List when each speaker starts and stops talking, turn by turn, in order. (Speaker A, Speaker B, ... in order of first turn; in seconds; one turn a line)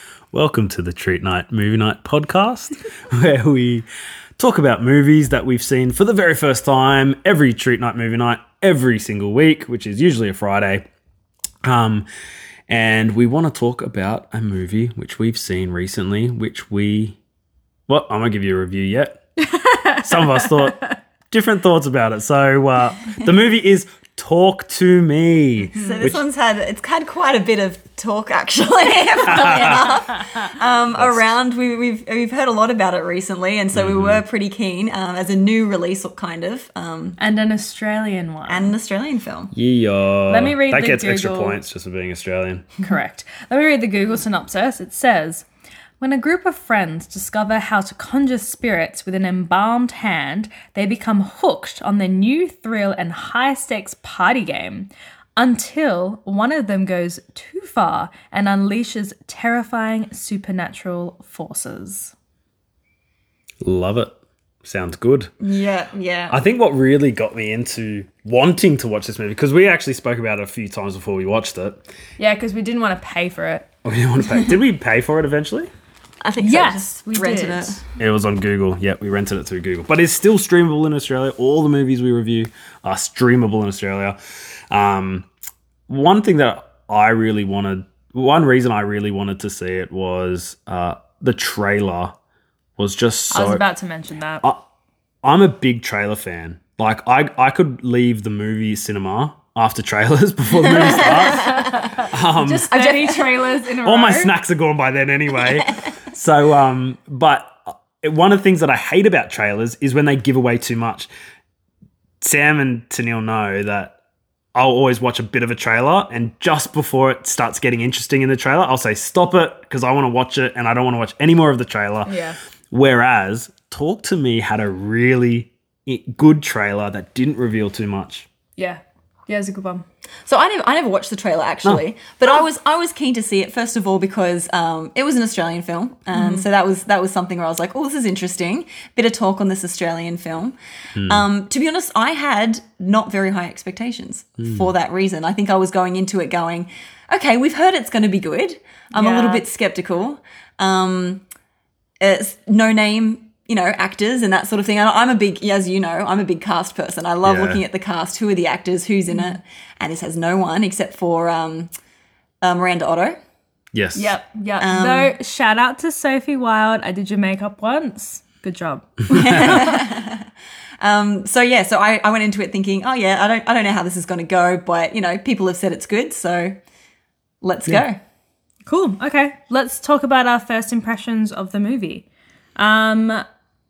Speaker A: 0.3-3.9
Speaker A: 4.4-10.8
Speaker A: 11.6-12.1
Speaker A: 12.7-17.2
Speaker A: 17.9-19.2
Speaker B: 19.4-20.9
Speaker A: 20.0-20.8
Speaker A: 21.3-26.2
Speaker C: 25.7-37.2
Speaker B: 25.7-26.1
Speaker B: 29.2-30.5
Speaker A: 29.3-29.9
Speaker A: 30.9-31.3
Speaker A: 33.7-34.2
Speaker B: 37.2-38.7
Speaker C: 38.5-39.5
Speaker A: 39.5-42.7
Speaker B: 40.3-41.6
Speaker B: 42.8-45.5
Speaker B: 46.0-62.1
Speaker A: 63.6-65.3
Speaker C: 65.4-66.4
Speaker A: 66.3-71.8
Speaker B: 72.2-73.7
Speaker A: 73.8-75.7
Speaker C: 76.2-77.8
Speaker B: 76.4-77.8
Speaker A: 78.0-84.2
Speaker A: 84.7-85.3
Speaker A: 85.9-92.2
Speaker A: 92.8-93.6
Speaker B: 93.3-94.4
Speaker A: 95.2-102.7
Speaker C: 100.8-101.7
Speaker B: 101.0-104.3
Speaker C: 102.5-103.5
Speaker A: 103.8-111.1
Speaker A: 112.2-114.0
Speaker A: 114.5-122.2
Speaker B: 122.0-122.4
Speaker A: 122.7-128.3
Speaker B: 128.6-129.8
Speaker C: 130.2-151.2
Speaker B: 136.1-136.4
Speaker A: 140.9-141.2
Speaker B: 148.9-149.4
Speaker C: 152.0-161.7
Speaker A: 157.2-157.6
Speaker B: 159.1-159.4
Speaker C: 162.4-163.2
Speaker A: 163.7-164.1
Speaker B: 163.9-169.8
Speaker C: 164.6-165.1
Speaker C: 169.1-170.2
Speaker A: 169.1-169.5
Speaker C: 170.8-176.6
Speaker C: 177.4-178.0
Speaker B: 178.7-182.0
Speaker B: 182.6-183.2